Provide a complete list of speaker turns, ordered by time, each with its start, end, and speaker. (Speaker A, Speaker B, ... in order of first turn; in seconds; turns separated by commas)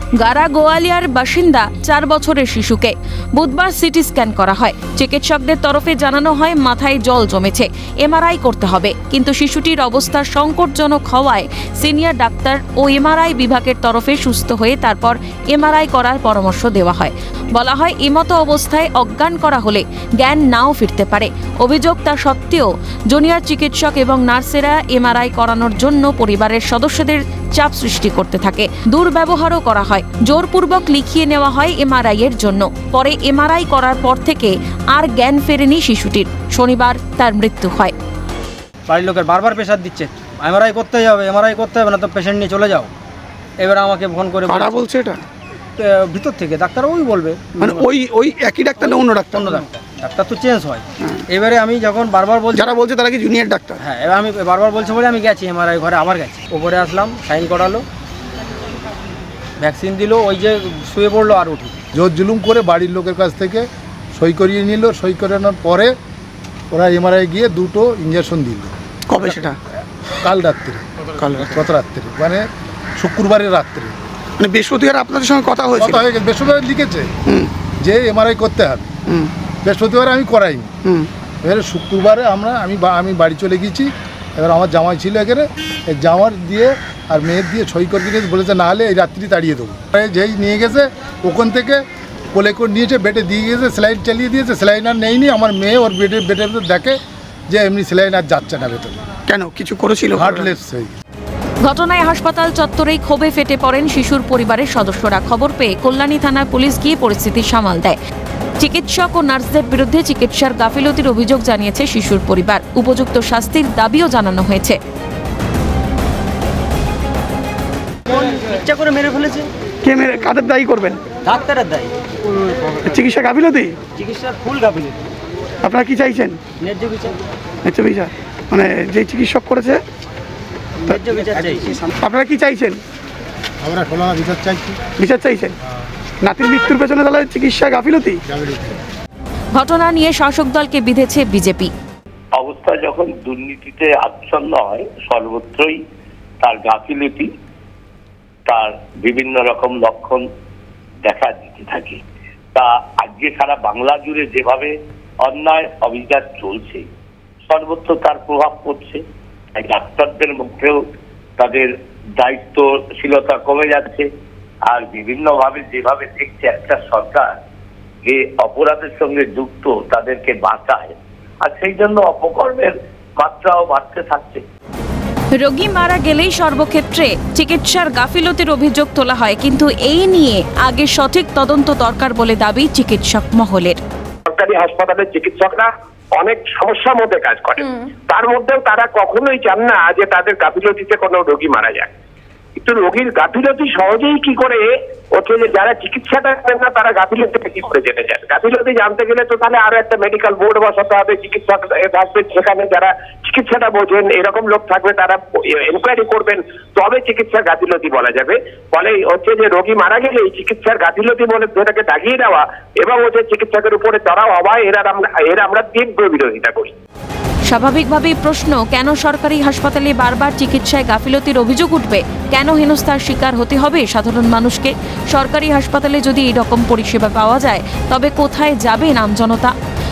Speaker A: 0.2-37.9, Speaker B: 38.9-42.9, Speaker B: 43.6-44.7, Speaker C: 44.4-45.2, Speaker B: 45.8-47.3, Speaker C: 47.6-49.6, Speaker B: 49.4-50.7, Speaker B: 51.3-52.6, Speaker C: 52.5-53.8, Speaker B: 53.9-57.8, Speaker B: 59.6-61.6, Speaker D: 61.9-65.9, Speaker D: 66.7-68.7, Speaker C: 69.1-69.6, Speaker D: 70.2-70.9, Speaker C: 71.2-71.5, Speaker D: 71.4-74.0, Speaker C: 74.4-76.0, Speaker D: 75.8-77.1, Speaker D: 77.8-78.9, Speaker D: 79.6-80.7, Speaker D: 81.4-97.0, Speaker D: 97.5-99.0, Speaker C: 99.3-100.5, Speaker D: 100.1-100.9, Speaker A: 101.6-108.0, Speaker A: 108.6-114.8, Speaker B: 118.1-119.5, Speaker C: 119.8-121.0, Speaker B: 121.2-121.9, Speaker C: 122.8-123.8, Speaker B: 124.0-125.0, Speaker C: 125.6-126.4, Speaker B: 126.6-127.1, Speaker C: 127.6-129.8, Speaker B: 130.9-131.8, Speaker C: 132.0-132.8, Speaker D: 133.6-134.8, Speaker C: 134.9-135.6, Speaker C: 136.2-138.2, Speaker D: 138.4-138.7, Speaker A: 139.5-141.7, Speaker E: 142.3-145.8, Speaker E: 146.4-147.3, Speaker E: 148.5-150.2, Speaker E: 151.0-152.0, Speaker E: 152.5-156.8, Speaker E: 157.5-159.0, Speaker E: 159.5-160.8, Speaker E: 161.4-164.1, Speaker E: 164.7-167.3, Speaker E: 168.0-174.4, Speaker A: 175.3-183.8, Speaker F: 184.3-191.9, Speaker F: 192.6-216.7, Speaker A: 217.5-229.5